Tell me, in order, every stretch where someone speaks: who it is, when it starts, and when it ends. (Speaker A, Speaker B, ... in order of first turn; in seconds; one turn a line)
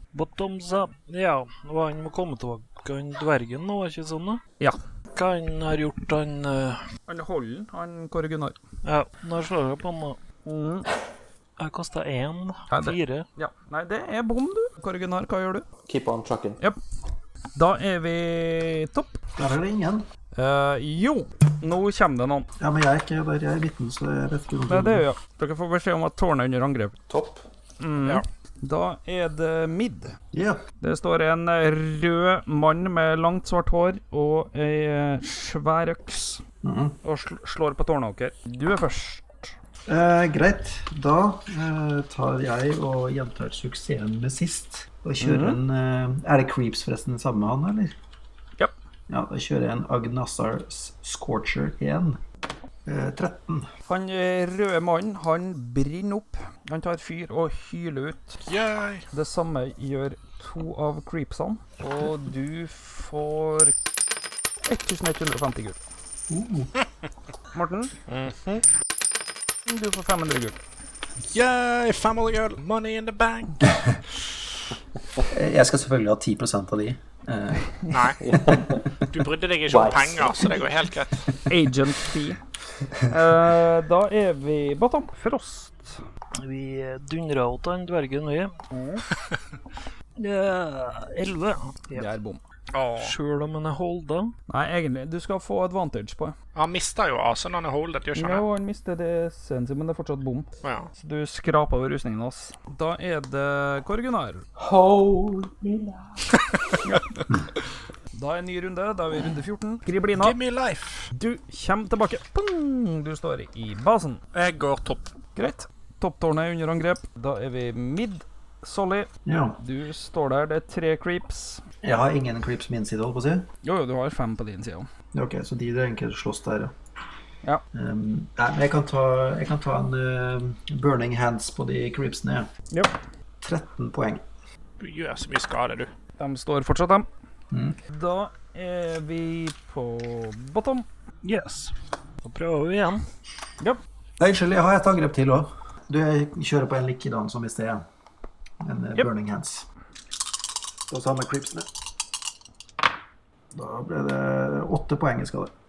Speaker A: 0.1-4.4
Speaker A: 5.1-6.8
Speaker B: 7.1-8.6
Speaker A: 8.8-10.2
Speaker B: 10.4-10.9
Speaker A: 11.6-13.3
Speaker B: 12.7-15.6
Speaker C: 15.9-16.6
Speaker B: 17.6-19.2
Speaker D: 19.4-20.1
Speaker B: 20.4-22.5
Speaker D: 22.6-25.0
Speaker B: 24.7-26.9
Speaker C: 27.1-27.4
Speaker B: 27.8-30.2
Speaker D: 30.3-30.6
Speaker B: 30.8-36.4
Speaker D: 36.6-37.0
Speaker B: 37.0-39.5
Speaker D: 39.9-47.9
Speaker B: 45.2-45.6
Speaker D: 49.1-52.2
Speaker D: 52.9-53.7
Speaker B: 53.9-58.4
Speaker E: 58.5-59.0
Speaker B: 59.1-63.7
Speaker B: 64.7-65.8
Speaker D: 66.3-66.7
Speaker B: 67.5-67.9
Speaker E: 68.1-68.6
Speaker B: 69.7-70.6
Speaker E: 71.3-73.6
Speaker D: 75.3-77.8
Speaker E: 77.9-78.2
Speaker C: 78.2-78.8
Speaker E: 79.1-81.2
Speaker C: 79.7-80.6
Speaker B: 81.5-82.4
Speaker B: 83.1-86.0
Speaker A: 86.4-88.5
Speaker B: 88.7-89.0
Speaker A: 90.2-92.1
Speaker B: 91.9-92.4
Speaker E: 92.7-93.1
Speaker A: 93.0-94.3
Speaker B: 94.5-96.3
Speaker E: 96.5-98.5
Speaker B: 98.1-104.4
Speaker E: 100.6-100.9
Speaker C: 104.6-106.2
Speaker B: 108.1-110.4
Speaker E: 110.1-111.1
Speaker B: 111.1-114.2
Speaker E: 114.3-115.1
Speaker B: 115.4-121.6
Speaker D: 119.3-119.6
Speaker D: 121.8-123.5
Speaker B: 123.6-124.9
Speaker D: 125.1-126.7
Speaker D: 127.7-132.5
Speaker D: 133.4-134.2
Speaker E: 134.8-135.9
Speaker B: 136.2-137.1
Speaker D: 137.5-137.8
Speaker B: 137.9-140.9
Speaker A: 141.2-143.0
Speaker D: 144.2-147.8
Speaker D: 148.6-149.7
Speaker D: 150.9-151.7
Speaker D: 153.5-155.5